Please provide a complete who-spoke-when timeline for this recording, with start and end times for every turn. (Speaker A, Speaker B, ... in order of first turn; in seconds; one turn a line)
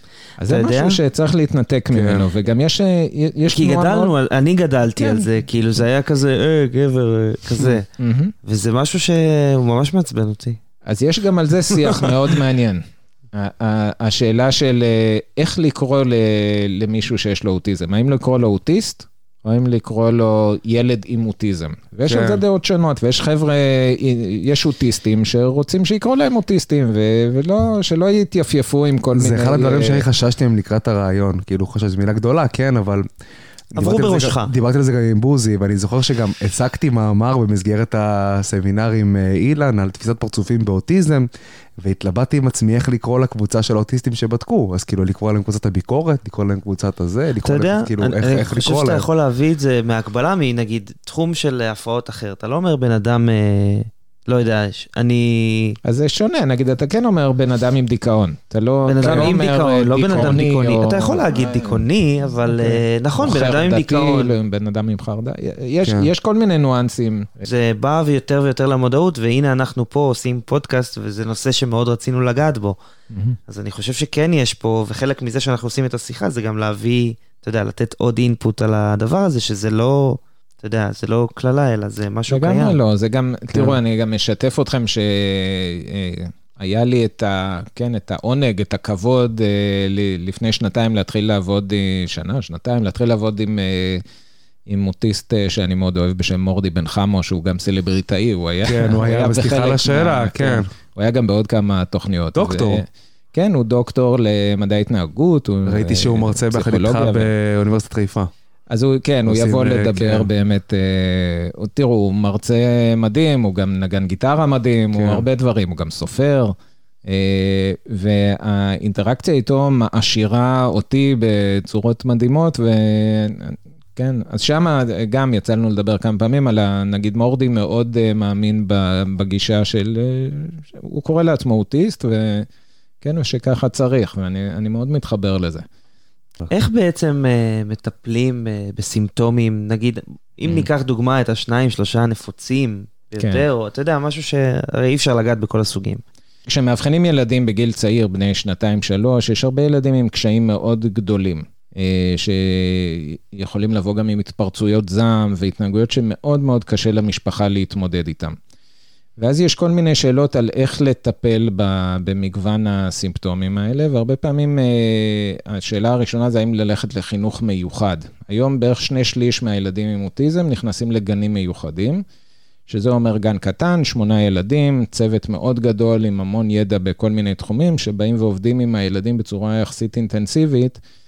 Speaker A: 0.4-4.1
Speaker B: 0.5-1.0
Speaker C: 1.9-2.3
Speaker B: 3.5-7.8
Speaker A: 5.0-5.3
Speaker A: 8.0-8.3
Speaker B: 8.4-10.6
Speaker A: 10.8-30.1
Speaker C: 22.1-22.4
Speaker C: 29.1-33.0
Speaker C: 33.7-41.3
Speaker B: 33.8-34.5
Speaker C: 41.8-49.0
Speaker B: 47.4-55.8
Speaker A: 55.8-61.9
Speaker B: 58.8-64.3
Speaker C: 59.0-59.3
Speaker A: 62.4-67.4
Speaker C: 65.8-66.1
Speaker B: 67.4-72.8
Speaker A: 73.1-73.4
Speaker B: 73.5-82.8
Speaker A: 82.3-94.0
Speaker A: 94.7-107.3
Speaker C: 98.6-100.7
Speaker C: 102.3-102.8
Speaker C: 105.7-108.3
Speaker A: 108.7-132.5
Speaker C: 109.2-110.3
Speaker C: 114.9-115.2
Speaker A: 133.0-135.6
Speaker B: 136.5-146.0
Speaker A: 143.2-143.4
Speaker A: 146.5-158.4
Speaker A: 159.2-172.0
Speaker A: 172.7-180.8